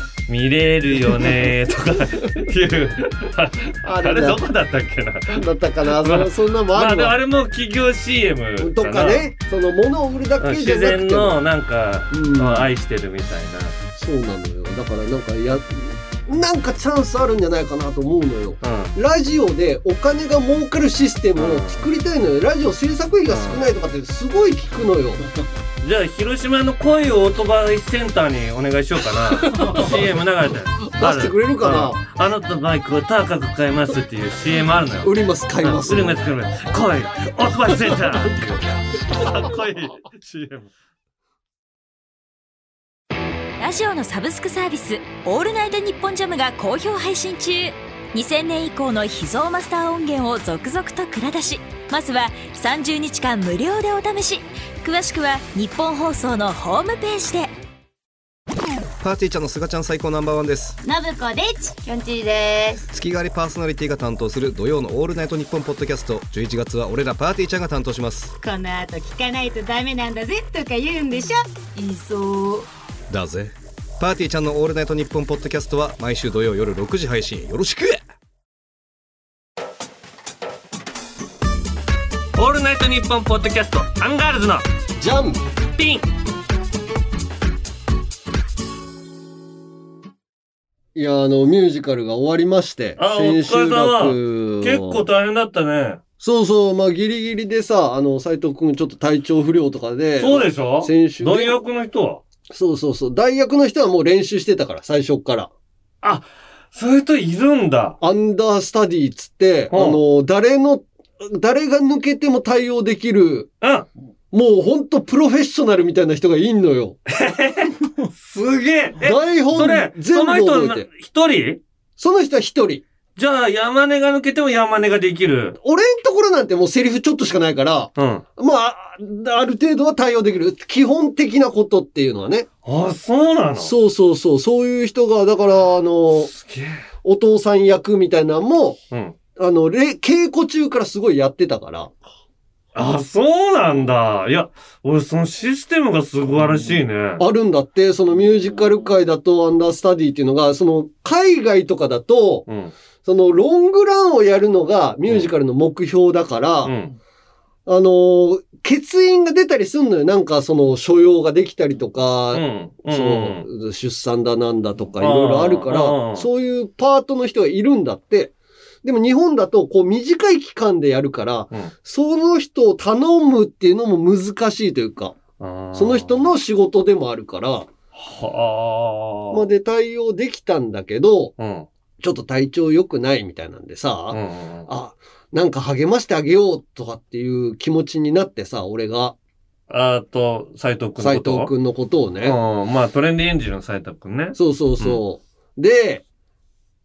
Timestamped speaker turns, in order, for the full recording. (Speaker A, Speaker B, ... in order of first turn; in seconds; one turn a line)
Speaker A: 0.3-9.3
Speaker B: 3.8-4.4
Speaker B: 5.3-7.2
Speaker B: 8.6-11.4
Speaker A: 10.4-13.8
Speaker B: 12.1-12.7
Speaker B: 13.9-25.2
Speaker A: 18.6-18.9
Speaker A: 21.4-21.8
Speaker A: 23.3-23.7
Speaker A: 25.8-40.7
Speaker B: 31.0-32.0
Speaker B: 35.0-36.2
Speaker C: 43.6-57.5
Speaker D: 59.0-60.8
Speaker E: 60.8-62.8
Speaker D: 62.9-68.3
Speaker E: 68.4-72.7
Speaker D: 73.1-78.0
Speaker A: 82.3-84.6
Speaker B: 85.0-85.4
Speaker A: 85.8-86.0
Speaker B: 90.9-95.0
Speaker A: 93.0-96.0
Speaker B: 96.2-101.6
Speaker A: 100.2-102.2
Speaker B: 102.5-105.5
Speaker A: 106.0-108.0
Speaker B: 108.0-113.5
Speaker A: 109.7-110.0
Speaker A: 113.6-113.9
Speaker B: 114.3-117.0
Speaker A: 117.1-121.6
Speaker B: 119.0-120.9
Speaker B: 122.0-122.8
Speaker A: 123.2-125.6
Speaker B: 125.6-132.5
Speaker A: 128.0-128.2
Speaker A: 132.6-133.7
Speaker B: 133.6-136.3
Speaker A: 136.2-136.8
Speaker B: 137.0-138.8
Speaker A: 138.9-139.2
Speaker B: 139.3-141.9
Speaker A: 142.7-147.2
Speaker B: 147.2-152.4
Speaker A: 152.5-152.7
Speaker B: 153.0-156.8
Speaker A: 156.6-156.9
Speaker B: 157.7-175.2
Speaker A: 162.3-163.4
Speaker A: 165.0-166.3
Speaker A: 175.4-176.2
Speaker B: 175.7-177.7
Speaker A: 177.9-179.4
Speaker B: 179.3-181.3
Speaker A: 181.4-181.7
Speaker B: 182.0-189.2
Speaker A: 184.1-184.7
Speaker A: 189.7-191.5
Speaker B: 191.0-192.4
Speaker A: 192.2-195.0
Speaker B: 194.3-196.0